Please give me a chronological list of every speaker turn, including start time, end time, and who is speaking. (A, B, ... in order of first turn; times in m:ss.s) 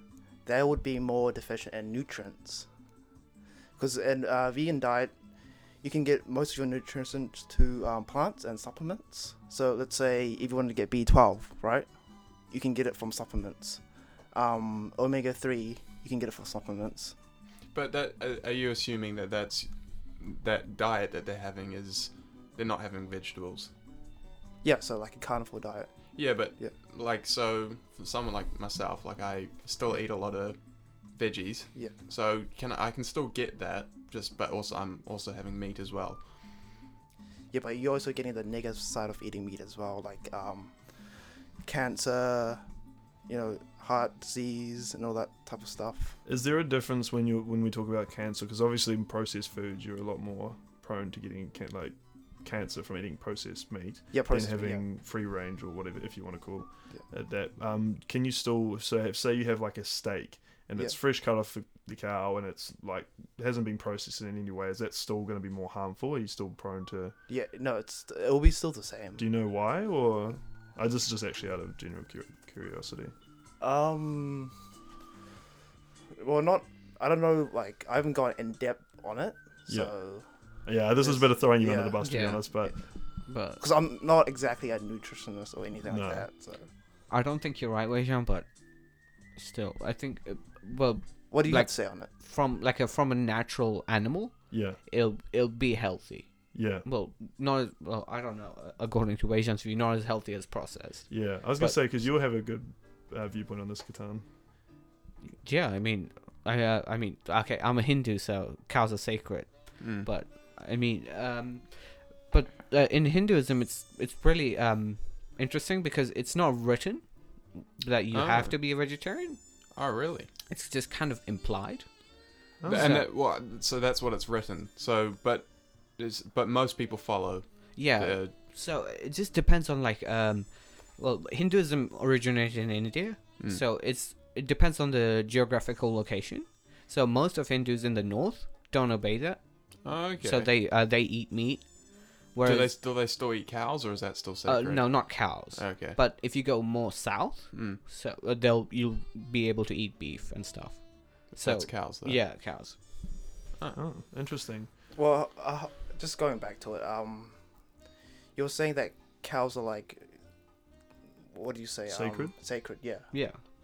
0:00.4-0:02.7 A
0:03.8-0:05.1 A
0:05.8-0:11.9 A
0:12.5-0:13.8 A
0:14.3-0:17.1 A
0:17.7-0:23.7 B
0:24.6-0:25.9 A
0:26.2-0:30.6 B
0:31.1-0:36.2 B
0:37.5-0:40.8 A
0:41.6-0:42.6 A
0:43.3-0:46.2 A
0:46.3-1:07.2 C
0:54.1-0:54.8 A
1:07.3-1:09.2 A
1:09.2-1:13.1 C
1:13.6-1:14.5 A
1:16.2-1:20.2 A
1:19.7-1:19.9 C
1:20.7-1:22.8 C
1:21.0-1:22.8 A
1:22.0-1:22.4 D
1:23.3-1:23.6 D
1:23.6-1:26.7 A
1:25.9-1:26.3 C
1:27.1-1:28.5 D
1:29.4-1:41.8 D
1:31.3-1:32.1 A
1:34.5-1:34.8 C
1:36.5-1:36.8 C
1:41.1-1:44.2 C
1:45.4-1:57.1 D
1:49.8-1:50.1 B
1:57.8-1:59.4 D
1:58.1-1:58.6 B
1:59.8-2:00.3 B
2:00.5-2:01.9 D
2:02.6-2:03.0 C
2:02.7-2:08.3 B
2:02.7-2:03.1 D
2:07.8-2:21.7 D
2:19.8-2:20.5 B
2:22.2-2:22.7 D
2:22.4-2:26.0 B
2:24.5-2:32.8 D
2:27.5-2:27.8 B
2:31.3-2:32.2 B
2:33.7-2:34.7 C
2:35.0-2:37.4 A
2:38.4-2:40.1 A
2:41.3-2:43.1 A
2:41.9-2:42.3 C
2:43.1-2:43.4 D